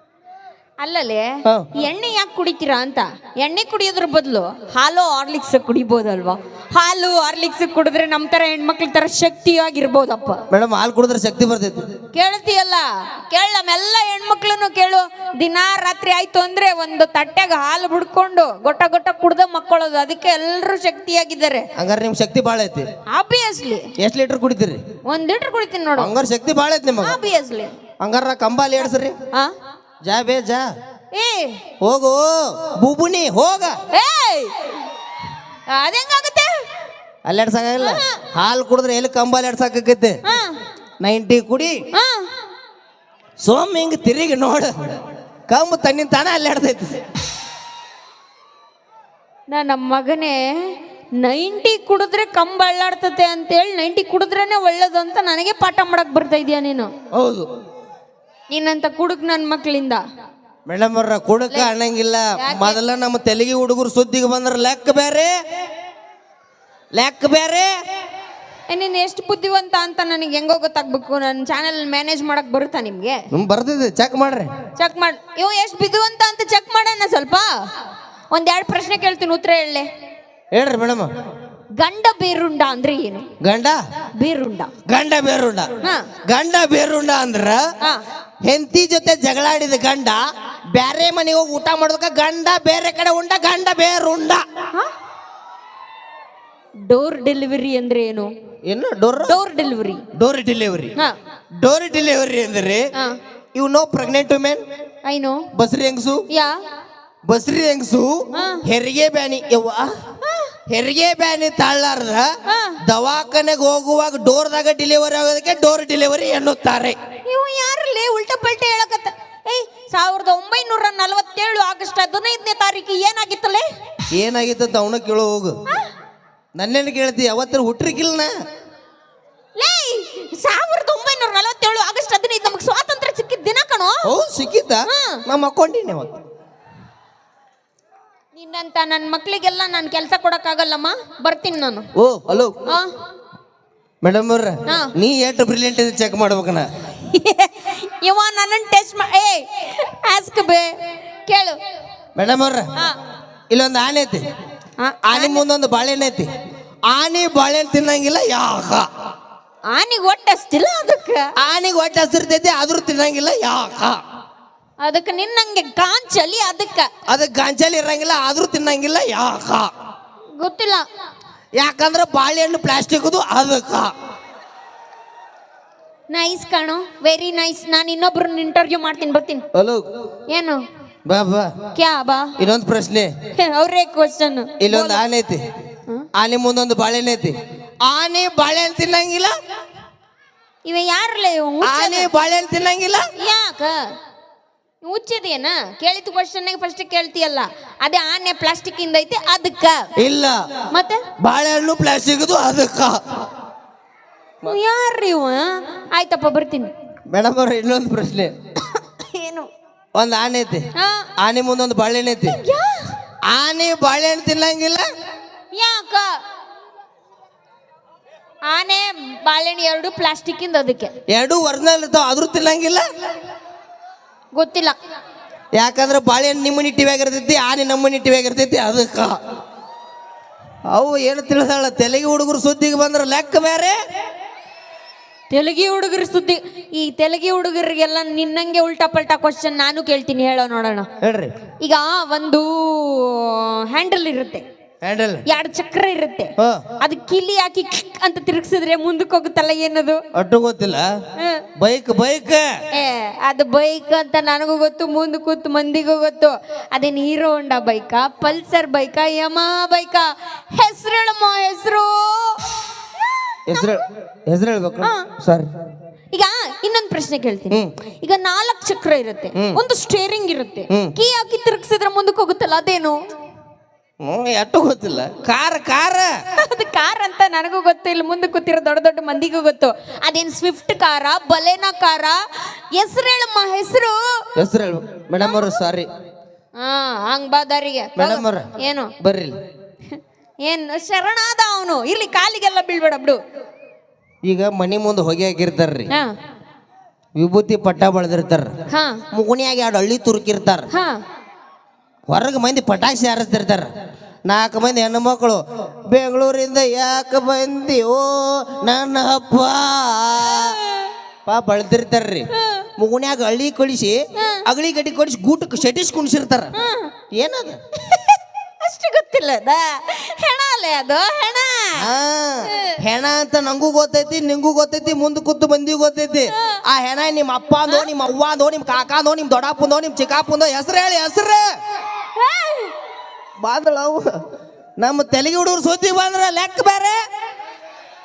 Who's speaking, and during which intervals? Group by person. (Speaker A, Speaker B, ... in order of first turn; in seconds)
Speaker A: 0.8-10.4, 12.1-21.7, 23.1-23.9, 25.1-26.1, 27.0-27.7, 31.1-31.6, 33.9-34.5, 35.7-36.5, 37.8-38.2, 40.3-40.6, 41.9-42.3, 49.5-56.9, 58.5-60.0, 62.4-62.8, 68.7-73.3, 74.8-77.7, 78.3-79.9, 81.8-83.3, 84.2-84.7, 85.8-86.1, 96.9-98.3, 99.3-100.0, 105.0-105.5, 106.3-106.6, 108.3-108.7, 110.2-110.5, 112.5-112.8, 117.3-123.7, 129.6-134.0, 134.9-135.2, 138.3-141.9, 142.7-142.9, 144.7-144.9, 147.1-150.7, 151.3-151.6, 154.8-155.4, 159.7-161.3, 164.8-166.9, 170.4-170.9, 176.1-179.4, 180.3-180.6, 181.8-182.3, 183.3-185.0, 190.7-192.1, 193.2-193.9, 194.8-199.9, 200.7-201.1, 204.5-206.7, 209.1-209.5, 210.8-211.1, 212.3-212.9, 215.5-216.2, 218.5-220.9, 224.3-224.8, 235.3-240.9, 241.6-244.4, 245.3-250.0, 251.2-251.4, 252.7-262.5, 263.6-263.8, 266.1-273.0, 276.4-282.2, 282.7-284.2, 286.6-288.9, 289.9-293.2, 298.7-299.0, 300.7-301.0, 310.2-310.9, 312.3-312.7, 314.2-314.5, 316.6-316.9, 317.8-321.9, 322.5-322.7, 326.3-326.6, 332.2-332.7
Speaker B: 10.5-11.9, 21.8-22.9, 24.0-24.8, 26.0-27.2, 28.0-29.2, 30.1-30.7, 31.8-33.8, 37.3-40.2, 41.0-41.8, 43.4-45.0, 45.5-47.0, 57.1-57.5, 60.7-65.3, 66.9-67.7, 73.3-74.5, 80.5-81.1, 83.4-83.8, 84.9-85.7, 86.2-87.7, 88.4-90.2, 90.7-94.5, 98.7-99.4, 100.2-101.0, 101.6-102.9, 103.5-104.6, 105.5-106.2, 107.3-109.9, 110.7-117.0, 124.1-125.6, 126.6-128.3, 134.0-136.2, 142.0-142.5, 144.0-146.7, 152.2-152.7, 153.5-154.2, 155.1-156.3, 156.9-158.9, 161.4-164.0, 167.1-169.7, 171.6-173.9, 179.5-179.9, 181.1-181.6, 182.4-183.1, 184.6-185.4, 186.2-189.3, 191.6-193.1, 200.0-200.4, 201.2-203.0, 207.1-208.3, 209.9-210.7, 211.2-212.4, 213.3-214.8, 221.1-222.9, 225.6-229.2, 230.7-233.8, 241.0-241.3, 244.8-245.2, 246.4-246.6, 250.2-250.9, 251.6-252.5, 263.5-265.5, 269.4-269.6, 274.0-276.2, 284.4-285.9, 288.0-288.5, 289.0-289.4, 294.2-295.9, 297.2-298.5, 299.1-300.7, 302.1-303.7, 304.3-310.6, 311.3-316.5, 317.1-317.6, 321.8-331.5, 333.4-334.2, 334.8-337.0